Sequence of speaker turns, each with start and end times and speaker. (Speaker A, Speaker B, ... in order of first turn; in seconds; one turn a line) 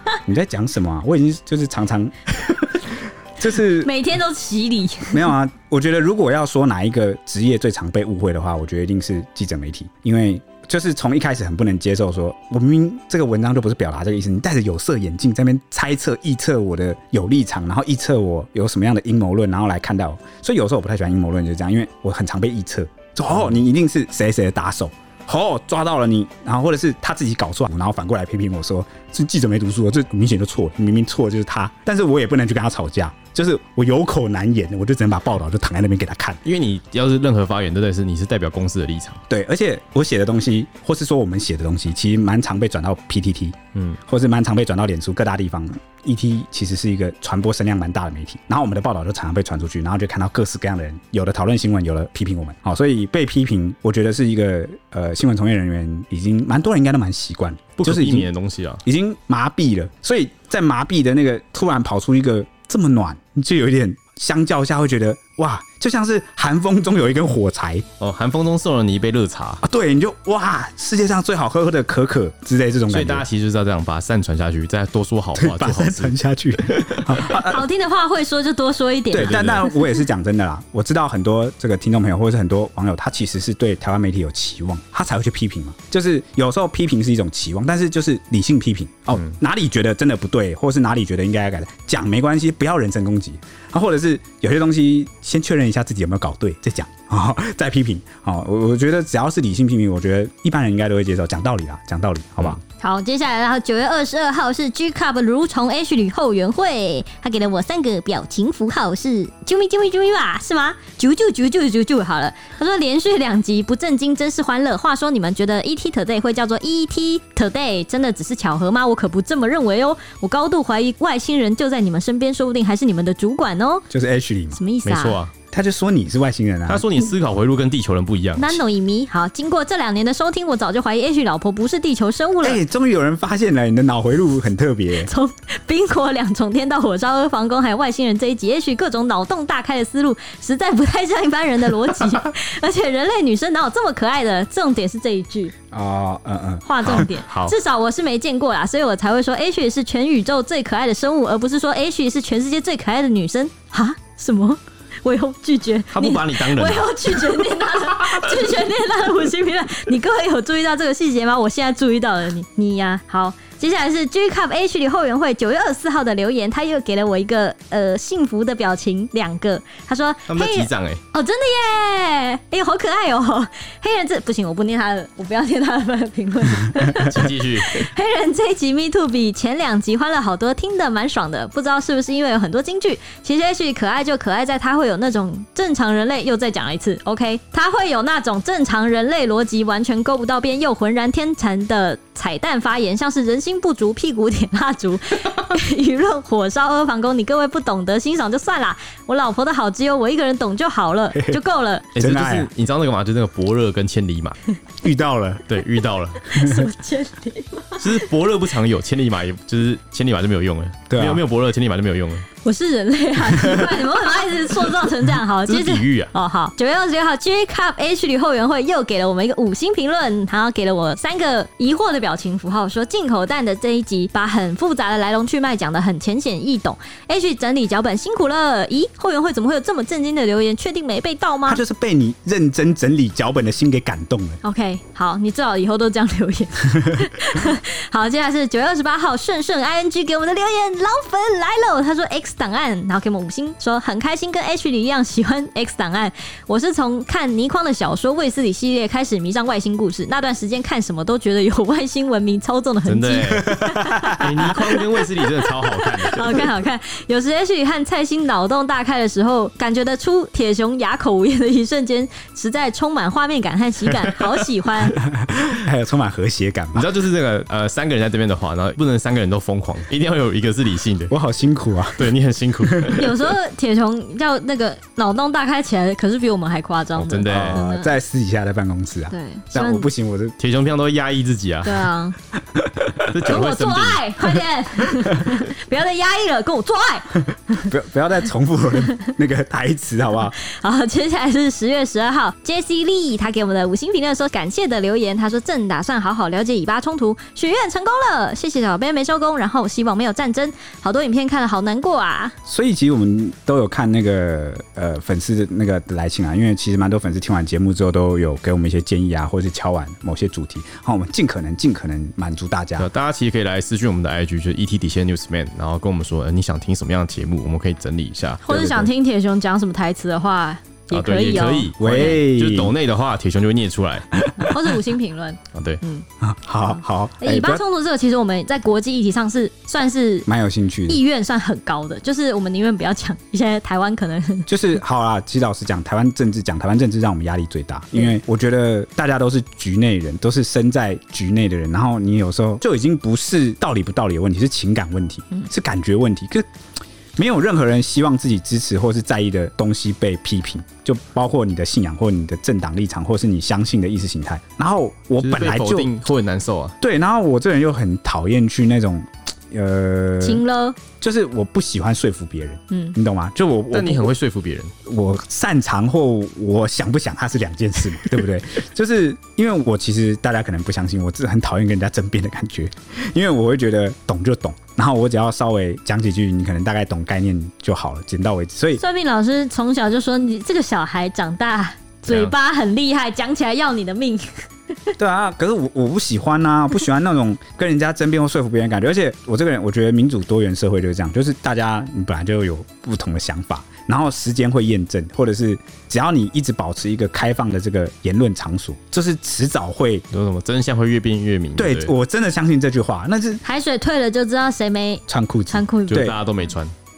Speaker A: 0.2-3.9
Speaker B: 3.8-5.3
Speaker A: 5.1-36.4
Speaker C: 36.5-39.2
Speaker A: 39.3-58.3
Speaker C: 57.8-58.8
Speaker A: 58.9-67.9
Speaker C: 68.0-69.6
Speaker A: 69.6-73.2
Speaker C: 72.9-76.1
Speaker A: 75.4-77.6
Speaker C: 76.7-77.1
Speaker B: 77.2-80.0
Speaker A: 79.1-102.6
Speaker C: 79.1-79.7
Speaker B: 102.8-123.9
Speaker A: 123.9-124.6
Speaker B: 124.5-125.2
Speaker C: 124.8-125.3
Speaker A: 125.5-126.9
Speaker C: 126.7-128.6
Speaker B: 128.4-132.6
Speaker A: 132.4-135.1
Speaker B: 135.0-145.5
Speaker A: 145.7-147.1
Speaker B: 146.6-201.9
Speaker C: 146.8-147.6
Speaker C: 155.9-158.1
Speaker C: 170.3-171.0
Speaker C: 176.9-177.9
Speaker A: 201.1-201.4
Speaker C: 201.9-204.4
Speaker A: 202.0-202.5
Speaker A: 204.8-205.5
Speaker C: 205.5-206.3
Speaker B: 206.3-208.0
Speaker A: 206.3-206.7
Speaker C: 207.8-212.3
Speaker A: 210.9-211.2
Speaker B: 212.4-231.6
Speaker C: 215.5-216.1
Speaker A: 231.5-234.4
Speaker B: 234.4-265.0
Speaker C: 252.9-256.5
Speaker A: 253.4-254.6
Speaker C: 263.9-264.2
Speaker A: 265.0-266.9
Speaker C: 266.7-271.1
Speaker A: 271.1-272.1
Speaker C: 272.0-273.2
Speaker A: 272.7-273.0
Speaker B: 273.0-277.9
Speaker C: 277.0-277.6
Speaker A: 277.3-280.4
Speaker B: 279.1-279.9
Speaker C: 280.4-281.9
Speaker B: 281.6-282.2
Speaker C: 283.0-284.1
Speaker B: 283.2-287.2
Speaker A: 287.6-290.4
Speaker B: 290.4-302.4
Speaker A: 302.5-312.9
Speaker C: 312.8-318.9
Speaker B: 318.4-322.1
Speaker C: 320.9-324.1
Speaker A: 321.8-322.8
Speaker B: 324.4-326.1
Speaker C: 325.5-325.8
Speaker A: 326.2-327.6
Speaker B: 327.2-330.3
Speaker A: 330.3-331.0
Speaker B: 330.9-334.5
Speaker A: 334.5-346.5
Speaker A: 347.2-355.9
Speaker C: 355.2-356.8
Speaker A: 356.8-360.4
Speaker B: 360.2-360.8
Speaker A: 361.0-364.1
Speaker B: 362.7-363.0
Speaker C: 363.7-364.7
Speaker A: 364.9-378.8
Speaker B: 378.8-384.9
Speaker A: 385.0-400.1
Speaker C: 400.1-401.9
Speaker A: 401.6-403.4
Speaker B: 403.4-406.1
Speaker A: 405.1-406.2
Speaker C: 405.9-406.7